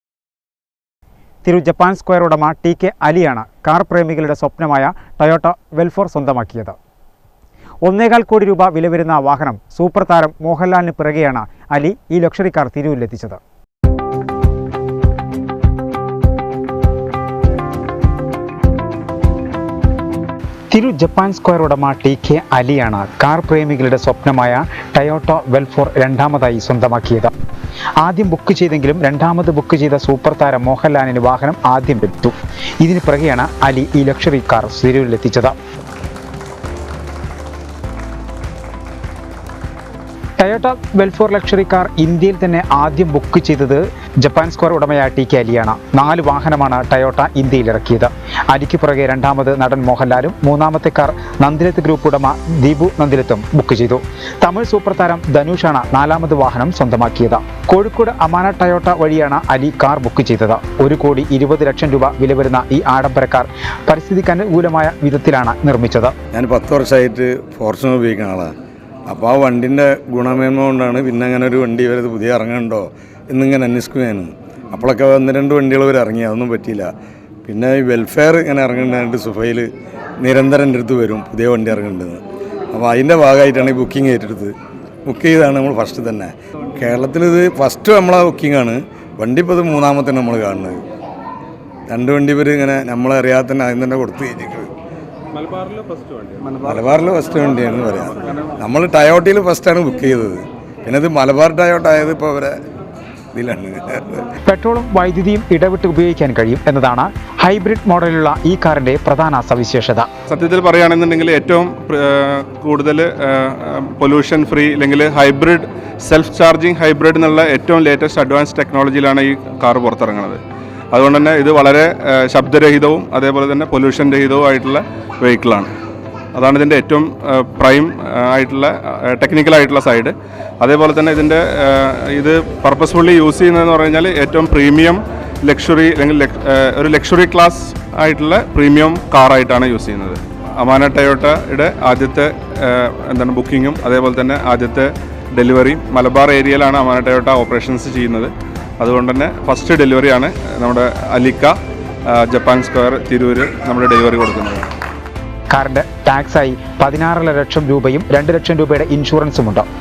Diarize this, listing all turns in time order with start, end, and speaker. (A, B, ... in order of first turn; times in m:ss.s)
0:01.4-0:06.8 A
0:07.8-0:13.4 A
0:20.7-0:27.3 A
0:28.0-0:35.6 A
0:40.4-1:06.1 A
1:06.3-1:08.5 B
1:09.1-1:16.9 B
1:17.5-1:19.7 B
1:20.2-1:24.6 B
1:25.1-1:30.8 B
1:31.9-1:34.7 B
1:35.7-1:36.5 C
1:36.6-1:42.6 B
1:43.3-1:44.2 B
1:44.4-1:50.1 A
1:50.3-2:05.7 C
2:06.3-2:31.6 C
2:32.1-2:34.7 C
2:35.5-2:39.7 A